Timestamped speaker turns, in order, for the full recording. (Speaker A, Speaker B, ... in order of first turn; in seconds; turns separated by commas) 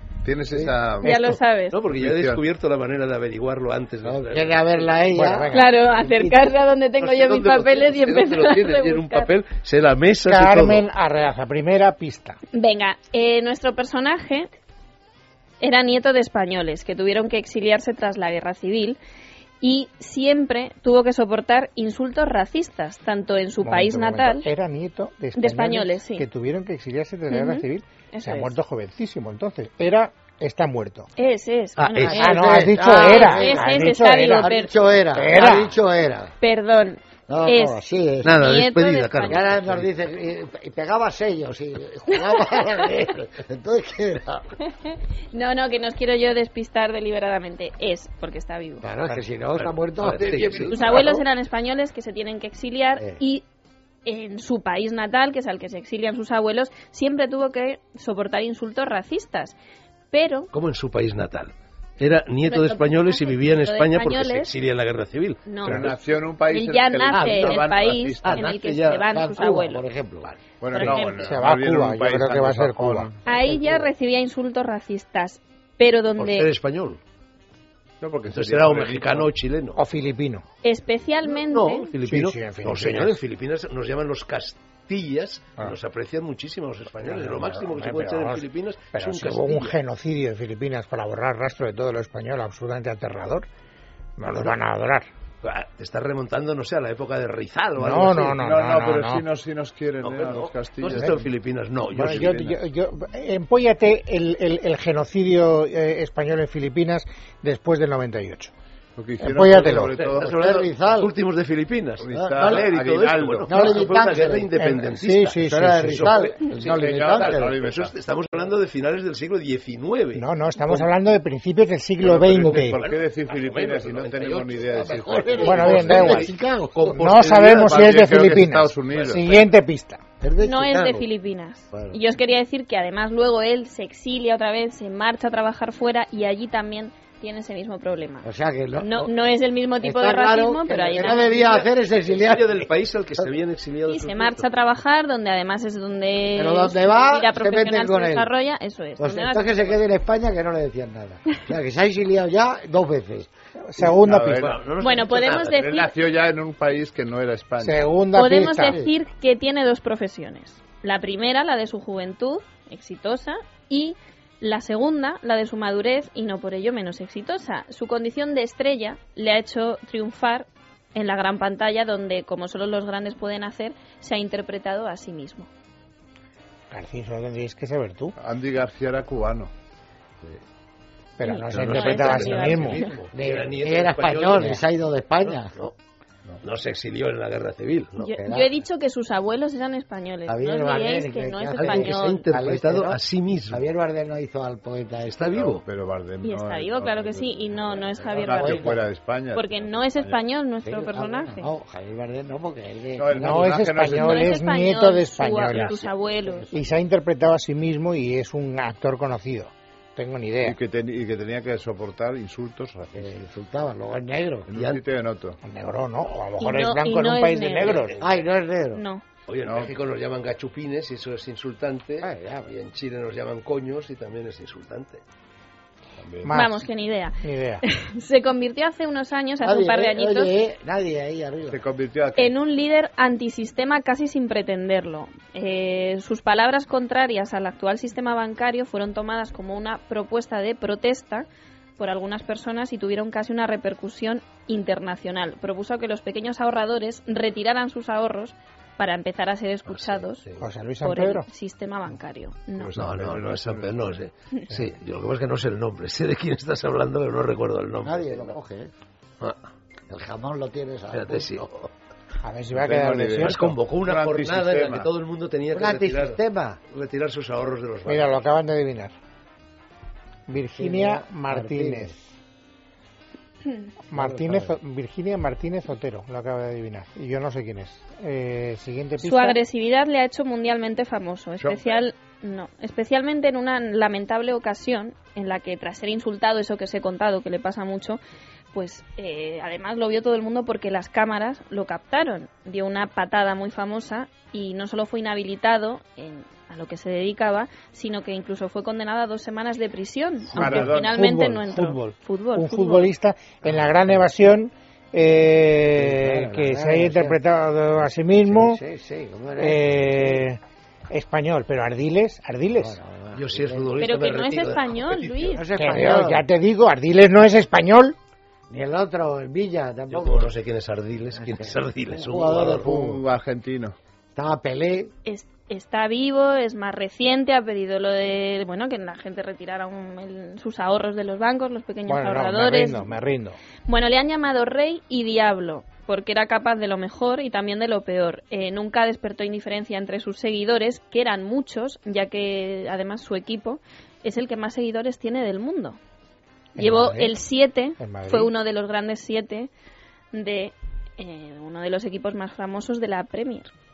Speaker A: 0.2-2.4, Speaker B: 0.5-0.8, Speaker C: 1.0-1.8, Speaker D: 1.7-5.0, Speaker B: 4.0-6.4, Speaker E: 5.1-5.8, Speaker C: 5.5-9.3, Speaker D: 7.0-10.8, Speaker E: 10.2-12.4, Speaker C: 12.5-14.5, Speaker C: 15.6-19.0, Speaker C: 19.6-24.5, Speaker E: 23.6-31.1, Speaker C: 25.4-26.2, Speaker C: 27.3-28.6, Speaker C: 31.2-35.5, Speaker D: 31.8-32.3, Speaker B: 32.0-36.3, Speaker E: 32.1-34.5, Speaker E: 35.1-35.8, Speaker C: 36.4-39.5, Speaker B: 37.3-38.4, Speaker D: 38.2-39.9, Speaker B: 39.2-44.5, Speaker C: 42.1-42.8, Speaker C: 44.6-48.8, Speaker B: 48.8-51.2, Speaker D: 49.5-51.0, Speaker A: 50.4-50.8, Speaker C: 50.7-53.4, Speaker C: 54.0-59.6, Speaker C: 60.1-60.5, Speaker D: 60.5-65.8, Speaker C: 62.4-64.5, Speaker C: 65.5-65.9, Speaker A: 65.6-68.5, Speaker C: 66.5-69.8, Speaker D: 67.1-69.0, Speaker B: 69.1-70.3, Speaker A: 70.6-73.1, Speaker C: 70.7-71.2, Speaker E: 71.2-73.2, Speaker C: 73.2-76.5, Speaker B: 73.3-73.9, Speaker D: 76.2-77.0, Speaker A: 78.0-79.3, Speaker D: 78.2-79.8, Speaker E: 79.8-80.4, Speaker C: 80.6-81.9, Speaker D: 81.2-89.8, Speaker E: 82.0-83.2, Speaker E: 87.0-93.5, Speaker E: 94.2-95.1, Speaker D: 95.4-98.4, Speaker E: 97.8-99.2, Speaker A: 98.3-101.2, Speaker D: 100.0-102.6, Speaker E: 101.9-108.5, Speaker A: 109.0-110.4, Speaker E: 109.2-109.9, Speaker D: 109.5-120.2, Speaker B: 110.2-111.1, Speaker A: 112.0-113.5, Speaker B: 112.1-112.7, Speaker B: 113.4-114.5, Speaker E: 114.5-116.1, Speaker B: 115.5-117.5, Speaker A: 116.6-117.9, Speaker E: 120.1-122.8, Speaker A: 122.0-126.1, Speaker D: 122.1-127.7, Speaker B: 124.7-126.9, Speaker E: 125.4-126.3, Speaker E: 126.9-130.0, Speaker A: 127.3-129.3, Speaker D: 128.9-129.5, Speaker B: 130.2-131.1, Speaker C: 130.4-138.3, Speaker B: 131.7-132.0, Speaker B: 138.2-139.1, Speaker C: 138.8-141.7, Speaker B: 139.8-143.3, Speaker D: 141.9-144.4, Speaker C: 143.9-149.8, Speaker B: 146.3-148.3, Speaker B: 149.0-153.3, Speaker E: 153.7-154.5, Speaker A: 153.8-154.6, Speaker D: 154.3-155.7, Speaker C: 154.8-155.9, Speaker A: 155.5-157.8, Speaker E: 157.6-158.8, Speaker C: 158.1-175.5, Speaker B: 158.7-158.9, Speaker E: 176.7-178.1, Speaker A: 178.2-179.5, Speaker E: 181.2-182.8, Speaker C: 181.2-182.9, Speaker D: 181.5-184.7, Speaker B: 183.1-185.5, Speaker D: 185.2-185.7, Speaker D: 186.4-188.1, Speaker C: 188.0-192.3, Speaker B: 188.1-188.6, Speaker B: 190.3-195.3, Speaker D: 191.6-193.7, Speaker D: 195.0-195.6, Speaker A: 195.3-200.2, Speaker C: 196.2-198.7, Speaker B: 198.0-198.9, Speaker C: 199.3-201.5, Speaker B: 200.6-203.7, Speaker A: 203.0-204.3, Speaker E: 203.2-205.9, Speaker C: 203.8-206.5, Speaker B: 205.7-206.8, Speaker E: 206.5-210.6, Speaker A: 210.4-213.2, Speaker B: 212.9-214.5, Speaker A: 214.5-215.4, Speaker D: 214.5-214.8, Speaker E: 215.4-217.9, Speaker C: 216.4-217.8, Speaker D: 217.6-218.2, Speaker B: 218.0-218.8, Speaker C: 218.7-219.0, Speaker D: 219.3-225.0, Speaker A: 219.4-219.8, Speaker B: 222.0-222.5, Speaker A: 226.0-226.3, Speaker E: 226.2-226.7, Speaker C: 226.3-230.3, Speaker E: 227.2-227.6, Speaker B: 229.4-231.7, Speaker A: 231.5-232.3, Speaker C: 232.2-241.3, Speaker C: 241.8-250.2, Speaker D: 249.7-250.4, Speaker E: 250.4-251.3, Speaker C: 250.8-252.7, Speaker A: 252.6-253.9, Speaker D: 252.7-258.4, Speaker B: 257.8-258.7, Speaker B: 259.9-261.7, Speaker D: 260.9-261.4, Speaker E: 262.2-263.5, Speaker A: 262.5-264.9, Speaker D: 263.2-268.3, Speaker B: 265.5-266.6, Speaker E: 267.9-268.9, Speaker E: 270.3-272.1, Speaker B: 270.5-271.9, Speaker E: 273.9-279.4, Speaker B: 273.9-274.6, Speaker C: 279.0-288.0, Speaker A: 281.4-281.8, Speaker C: 288.5-302.9, Speaker E: 300.3-308.6, Speaker A: 300.3-300.9, Speaker B: 303.5-304.0, Speaker B: 305.7-307.2, Speaker B: 308.2-310.2, Speaker E: 309.4-312.8, Speaker B: 312.5-313.9, Speaker D: 313.1-315.4, Speaker C: 313.8-315.5, Speaker B: 315.3-316.2, Speaker E: 315.6-317.9, Speaker B: 318.5-320.3, Speaker D: 319.9-322.8, Speaker B: 321.1-323.0, Speaker A: 322.2-323.8, Speaker B: 324.1-324.9, Speaker C: 325.0-333.0, Speaker E: 331.9-333.4, Speaker C: 333.6-345.8, Speaker C: 346.5-349.5, Speaker B: 346.6-347.1, Speaker E: 347.8-348.3, Speaker C: 350.1-353.5